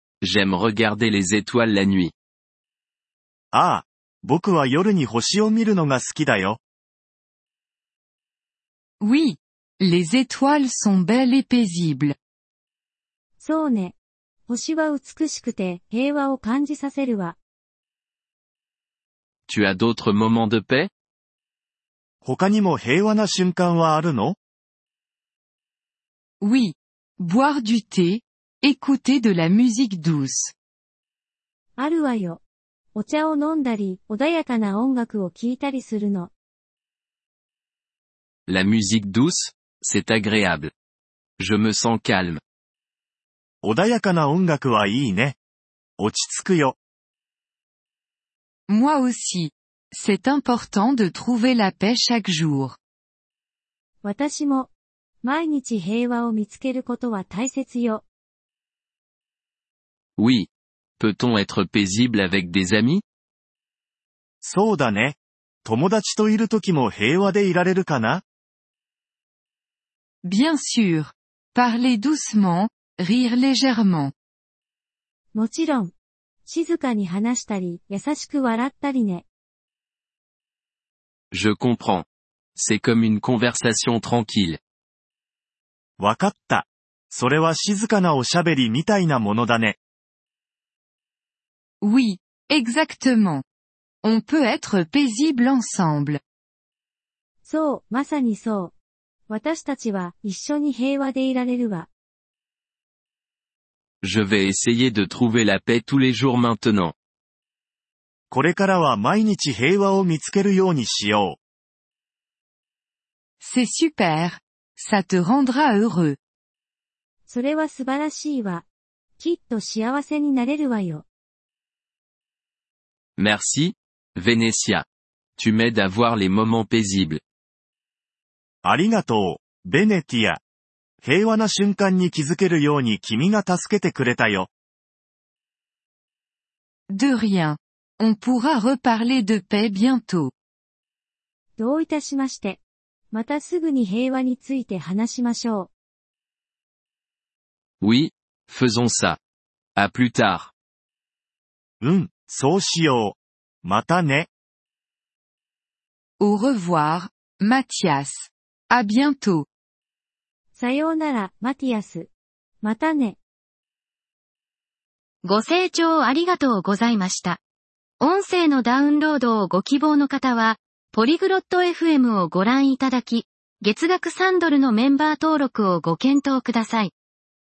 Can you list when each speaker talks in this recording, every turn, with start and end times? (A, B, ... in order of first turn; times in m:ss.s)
0:00.2-0:02.1 A
0:03.5-0:06.6 B
0:09.0-0:12.2 C
0:13.4-0:14.0 D
0:14.5-0:17.4 D
0:19.5-0:20.9 A
0:22.2-0:24.4 B
0:26.4-0:30.5 C
0:31.8-0:32.4 D
0:32.9-0:36.3 D
0:38.5-0:40.7 A
0:41.4-0:42.4 A
0:43.6-0:45.4 B
0:46.0-0:46.8 B
0:48.7-0:52.8 C
0:54.0-0:54.7 D
0:55.2-0:58.0 D
1:00.2-1:03.0 A
1:04.4-1:08.2 B
1:10.2-1:14.1 C
1:15.3-1:15.9 D
1:16.5-1:19.2 D
1:21.3-1:24.6 A
1:26.0-1:29.8 B
1:31.8-1:33.4 C
1:34.0-1:36.2 C
1:37.4-1:38.7 D
1:39.3-1:41.9 D
1:44.0-1:46.9 A
1:48.3-1:51.4 B
1:53.4-1:56.2 C
1:57.3-1:58.6 D
1:59.2-2:01.1 D
2:03.2-2:04.8 A
2:05.4-2:07.2 A
2:08.6-2:10.4 B
2:11.0-2:14.5 B
2:16.9-2:20.3 C
2:21.6-2:22.6 D
2:23.1-2:25.7 D
2:27.8-2:29.2 A
2:29.8-2:30.5 A
2:31.8-2:34.3 B
2:36.2-2:39.5 C
2:40.5-2:42.1 D
2:42.6-2:43.2 D
2:45.2-2:47.4 E
2:48.0-2:56.9 E